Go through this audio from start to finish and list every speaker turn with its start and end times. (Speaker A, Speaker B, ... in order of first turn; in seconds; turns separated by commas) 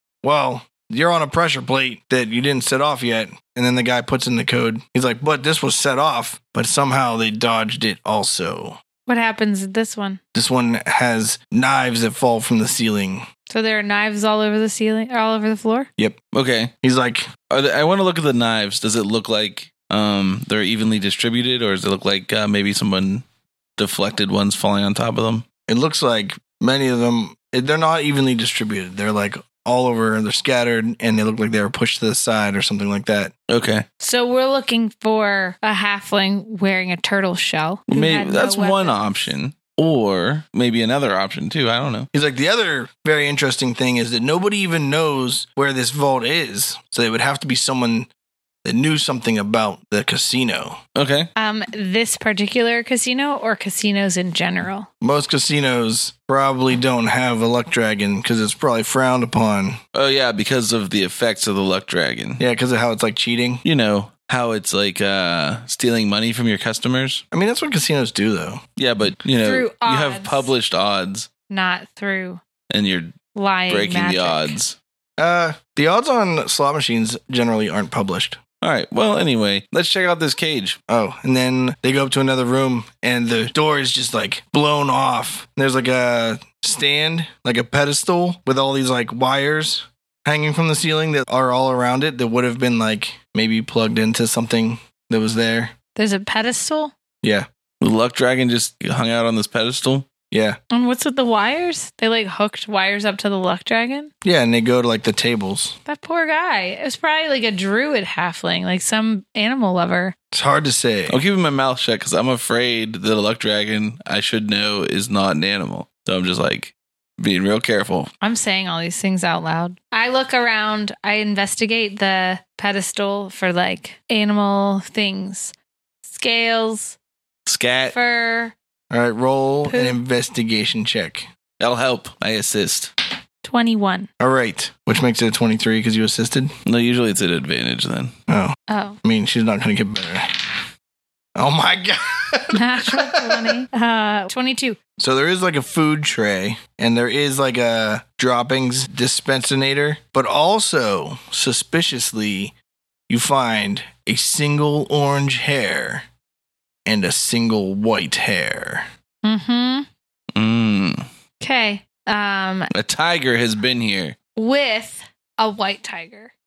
Speaker A: 0.2-8.8, Speaker B: 9.1-10.2, Speaker A: 10.3-13.3, Speaker B: 13.5-15.9, Speaker C: 16.3-16.7, Speaker A: 16.8-17.3, Speaker C: 17.5-23.2, Speaker C: 23.8-25.4, Speaker A: 25.7-33.3, Speaker C: 33.5-33.8, Speaker B: 34.0-39.0, Speaker C: 37.9-42.1, Speaker A: 42.1-48.1, Speaker A: 48.6-50.8, Speaker C: 50.9-51.3, Speaker B: 51.4-54.9, Speaker A: 55.0-59.8, Speaker C: 59.9-62.4, Speaker A: 62.4-63.6, Speaker C: 63.6-67.2, Speaker A: 67.3-68.6, Speaker C: 68.8-71.3, Speaker B: 69.4-70.5, Speaker B: 71.5-72.4, Speaker C: 72.7-73.2, Speaker B: 73.3-74.5, Speaker C: 73.7-74.8, Speaker A: 75.2-78.4, Speaker C: 78.6-80.8, Speaker A: 80.9-95.7, Speaker B: 96.0-96.9, Speaker C: 97.8-100.1, Speaker A: 100.3-100.6, Speaker B: 100.7-104.1, Speaker A: 104.2-105.8, Speaker B: 105.8-110.1, Speaker A: 110.3-111.2, Speaker C: 111.1-118.1, Speaker B: 118.2-125.5, Speaker B: 126.0-127.0, Speaker C: 127.5-127.9, Speaker B: 127.9-128.5, Speaker A: 128.9-131.3, Speaker B: 129.7-130.0, Speaker C: 131.6-132.9, Speaker B: 133.4-134.1, Speaker A: 134.2-136.5, Speaker C: 136.7-138.1, Speaker A: 138.3-140.5, Speaker B: 138.7-139.0, Speaker A: 141.3-143.6, Speaker B: 142.5-144.8, Speaker A: 145.0-152.5, Speaker A: 153.1-156.0, Speaker A: 156.8-158.9, Speaker B: 159.2-159.9, Speaker C: 160.3-161.1, Speaker B: 161.4-162.7, Speaker C: 162.7-164.1, Speaker B: 164.3-166.3